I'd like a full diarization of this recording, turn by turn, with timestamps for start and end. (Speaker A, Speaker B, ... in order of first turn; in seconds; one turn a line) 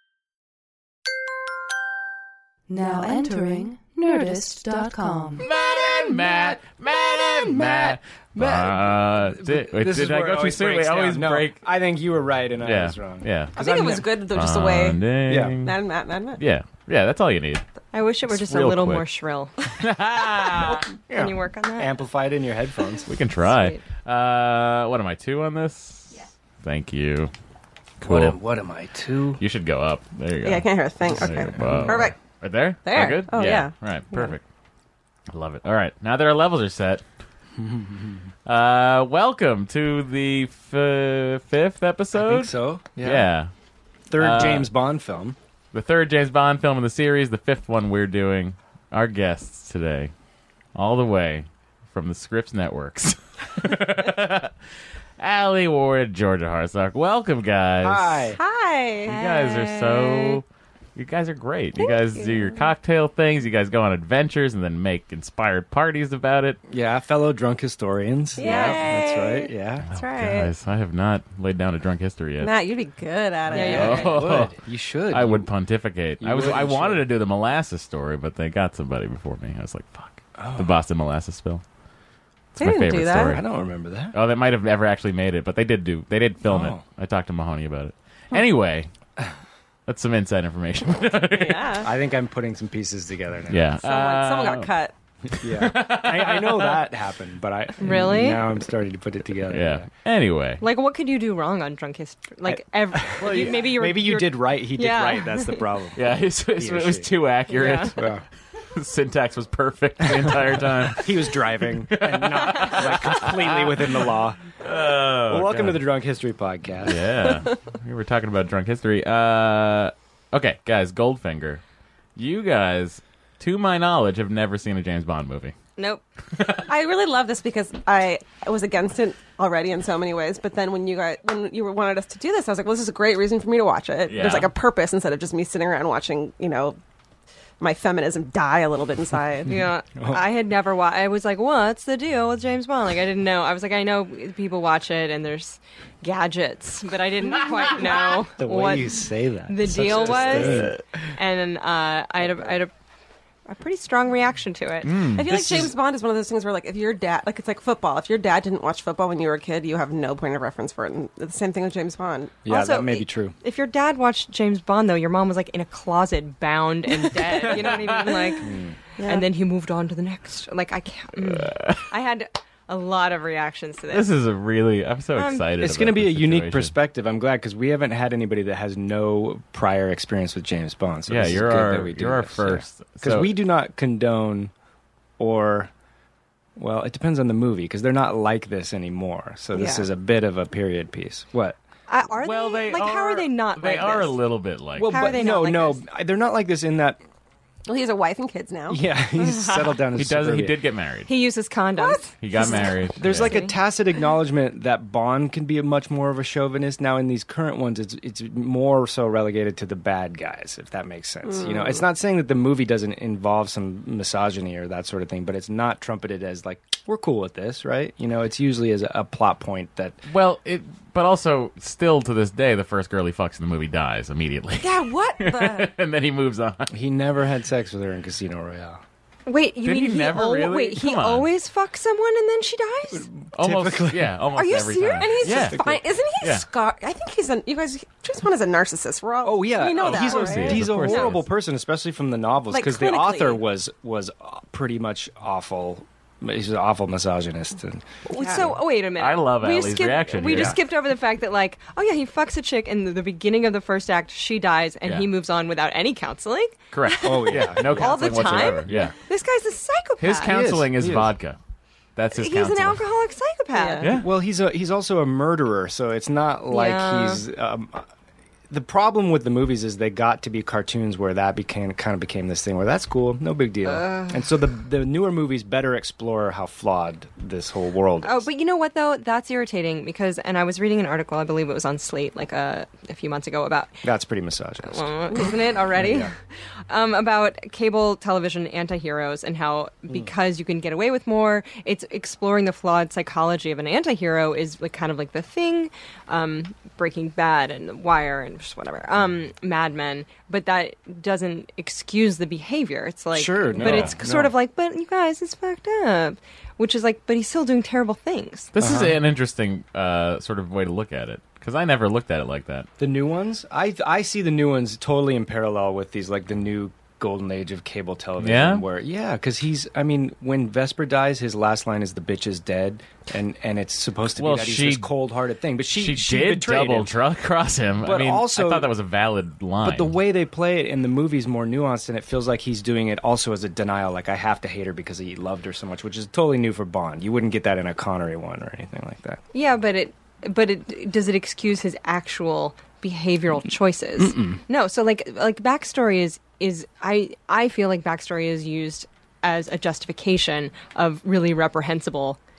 Speaker A: 2.7-5.5
Speaker B: 5.4-11.6
Speaker C: 7.5-7.8
Speaker C: 8.4-14.2
Speaker B: 12.6-15.8
Speaker D: 13.6-15.0
Speaker C: 15.3-15.6
Speaker D: 15.6-16.4
Speaker B: 16.4-17.6
Speaker E: 17.9-19.5
Speaker B: 18.3-19.0
Speaker B: 19.8-20.9
Speaker C: 21.1-23.1
Speaker E: 21.1-21.9
Speaker B: 23.1-27.3
Speaker E: 23.4-23.8
Speaker B: 28.0-28.4
Speaker C: 28.0-29.4
Speaker B: 29.4-34.4
Speaker D: 30.4-32.1
Speaker C: 31.6-32.0
Speaker D: 32.9-34.3
Speaker B: 35.3-37.0
Speaker C: 37.6-38.3
Speaker B: 38.5-43.5
Speaker C: 42.1-43.3
Speaker C: 44.1-45.4
Speaker B: 44.2-44.7
Speaker B: 45.7-50.1
Speaker B: 50.8-54.5
Speaker B: 55.2-58.3
Speaker C: 57.8-58.4
Speaker D: 58.4-60.4
Speaker B: 59.0-60.5
Speaker B: 61.0-66.6
Speaker D: 61.8-62.7
Speaker C: 66.7-69.9
Speaker D: 68.4-70.5
Speaker E: 68.4-68.8
Speaker B: 69.9-72.5
Speaker D: 72.4-74.2
Speaker C: 73.5-75.5
Speaker E: 73.5-74.1
Speaker B: 73.5-74.5
Speaker B: 75.1-81.6
Speaker C: 76.2-77.1
Speaker C: 80.4-80.8
Speaker B: 82.5-83.4
Speaker D: 82.6-83.4
Speaker C: 83.2-84.2
Speaker B: 84.1-88.9
Speaker C: 86.5-86.8
Speaker B: 89.9-91.9
Speaker D: 91.3-91.9
Speaker C: 91.8-93.7
Speaker B: 93.5-94.7
Speaker D: 93.8-94.9
Speaker C: 95.4-99.9
Speaker B: 95.4-96.8
Speaker E: 97.8-98.4
Speaker B: 99.5-100.6
Speaker E: 100.6-105.6
Speaker C: 102.5-107.1
Speaker B: 103.2-103.7
Speaker B: 106.0-108.1
Speaker E: 107.5-107.9
Speaker C: 107.8-108.2
Speaker B: 108.8-111.2
Speaker C: 110.0-114.5
Speaker B: 111.9-114.1
Speaker B: 114.6-115.8
Speaker C: 115.3-117.1
Speaker B: 116.9-121.6
Speaker B: 122.2-125.5
Speaker E: 125.8-126.0
Speaker B: 126.3-126.7
Speaker D: 126.7-136.8
Speaker B: 134.1-134.5
Speaker D: 137.6-139.7
Speaker E: 139.5-152.7
Speaker C: 140.0-140.2
Speaker C: 148.4-150.8
Speaker B: 150.2-150.8
Speaker E: 153.5-154.9
Speaker B: 154.8-155.5
Speaker D: 155.2-162.4
Speaker C: 155.2-155.7
Speaker C: 162.4-163.3
Speaker E: 162.5-168.5
Speaker B: 167.3-168.3
Speaker C: 168.4-168.8
Speaker D: 169.0-169.3
Speaker E: 169.0-174.1
Speaker B: 171.3-171.8
Speaker B: 173.9-176.7
Speaker E: 175.2-175.4
Speaker C: 175.6-184.5
Speaker B: 181.1-183.3
Speaker C: 185.2-185.7
Speaker C: 186.6-191.6
Speaker D: 189.5-189.9
Speaker E: 191.9-194.2
Speaker B: 192.2-195.1
Speaker C: 194.8-197.0
Speaker E: 194.9-195.8
Speaker D: 197.7-198.8
Speaker C: 198.7-200.6
Speaker E: 199.2-199.7
Speaker B: 199.9-201.1
Speaker E: 201.1-202.1
Speaker D: 201.8-202.7
Speaker B: 202.2-203.3
Speaker C: 203.0-220.0
Speaker E: 203.3-203.6
Speaker D: 211.2-211.8
Speaker B: 220.1-226.7
Speaker D: 224.6-225.7
Speaker C: 226.7-228.8
Speaker E: 229.3-233.1
Speaker B: 229.6-231.3
Speaker C: 232.9-234.2
Speaker B: 233.4-235.6
Speaker E: 234.3-235.0
Speaker D: 234.9-241.1
Speaker C: 235.3-235.8
Speaker B: 236.2-236.5
Speaker C: 239.2-247.9
Speaker B: 239.8-241.3
Speaker D: 242.5-243.4
Speaker E: 248.1-260.3
Speaker D: 248.1-248.5
Speaker B: 249.0-250.6
Speaker C: 250.3-250.6
Speaker B: 256.7-258.9
Speaker C: 257.0-258.9
Speaker B: 260.0-261.4
Speaker C: 260.2-261.1
Speaker B: 262.0-262.8
Speaker E: 262.1-263.8
Speaker D: 263.5-264.0
Speaker C: 263.9-267.9
Speaker E: 266.5-267.2
Speaker C: 268.5-278.3
Speaker E: 273.7-274.2
Speaker E: 278.0-283.8
Speaker C: 283.8-285.2
Speaker E: 284.6-286.1
Speaker C: 285.7-286.1
Speaker E: 286.7-308.5
Speaker C: 303.1-304.4
Speaker B: 303.6-303.9
Speaker B: 308.6-312.7
Speaker C: 308.6-309.0
Speaker C: 312.8-327.0
Speaker B: 318.2-318.6
Speaker B: 324.2-324.9
Speaker B: 325.7-329.9
Speaker C: 327.8-328.7
Speaker C: 329.6-339.2
Speaker E: 339.3-352.2
Speaker C: 344.0-344.4